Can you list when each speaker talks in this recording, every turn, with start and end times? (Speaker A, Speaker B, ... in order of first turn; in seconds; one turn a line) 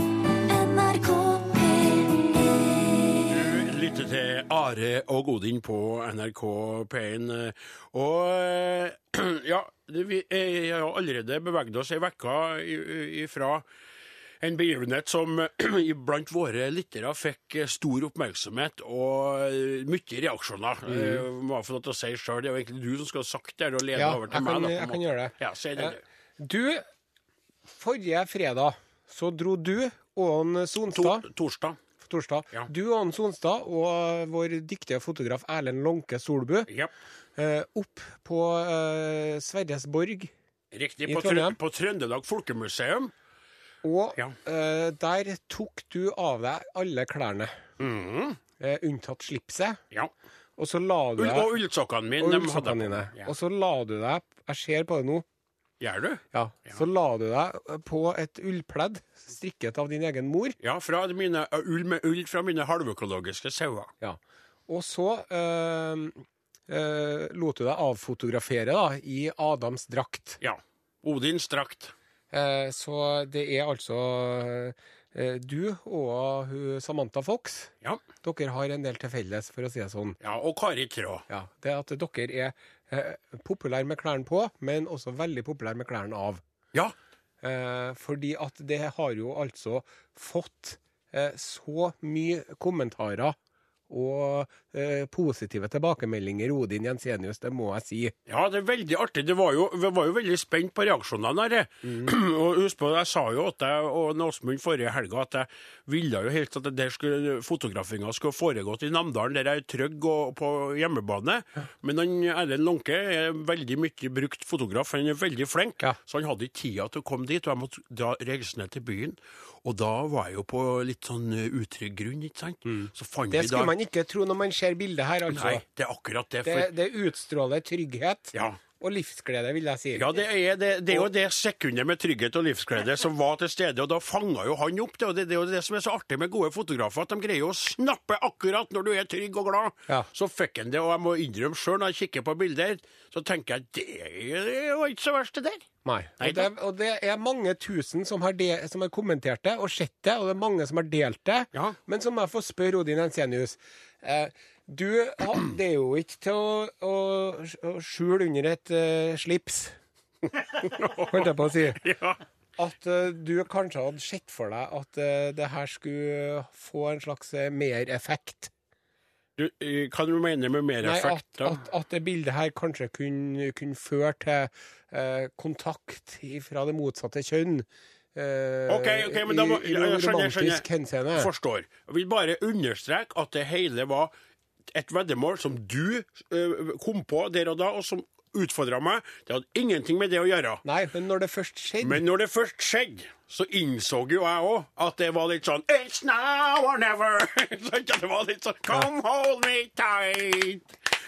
Speaker A: 0.4-3.3
Speaker B: 3.3-13.6
Speaker B: 14.4-26.0
Speaker C: 20.9-21.2
Speaker C: 23.9-26.8
Speaker C: 27.8-31.2
Speaker B: 30.9-31.8
Speaker C: 32.0-36.7
Speaker C: 37.4-40.3
Speaker B: 40.7-43.1
Speaker C: 41.1-41.6
Speaker C: 43.8-47.5
Speaker B: 47.8-48.4
Speaker C: 48.6-49.8
Speaker C: 50.6-51.5
Speaker B: 51.2-53.3
Speaker C: 52.2-55.2
Speaker B: 55.8-56.8
Speaker C: 56.3-60.6
Speaker B: 60.6-63.9
Speaker C: 64.0-70.4
Speaker B: 70.4-71.9
Speaker C: 72.3-80.2
Speaker B: 80.2-81.3
Speaker C: 81.3-86.4
Speaker C: 87.4-93.4
Speaker C: 93.9-98.1
Speaker B: 98.3-123.7
Speaker C: 122.7-125.6
Speaker B: 125.3-126.7
Speaker C: 126.5-130.2
Speaker B: 128.3-128.6
Speaker B: 129.9-145.7
Speaker C: 145.8-159.8
Speaker B: 146.2-146.5
Speaker B: 160.3-162.2
Speaker C: 161.1-161.8
Speaker C: 162.6-168.5
Speaker B: 169.4-171.6
Speaker C: 170.8-181.3
Speaker B: 178.7-184.1
Speaker B: 184.7-190.6
Speaker C: 190.7-192.0
Speaker B: 191.8-200.7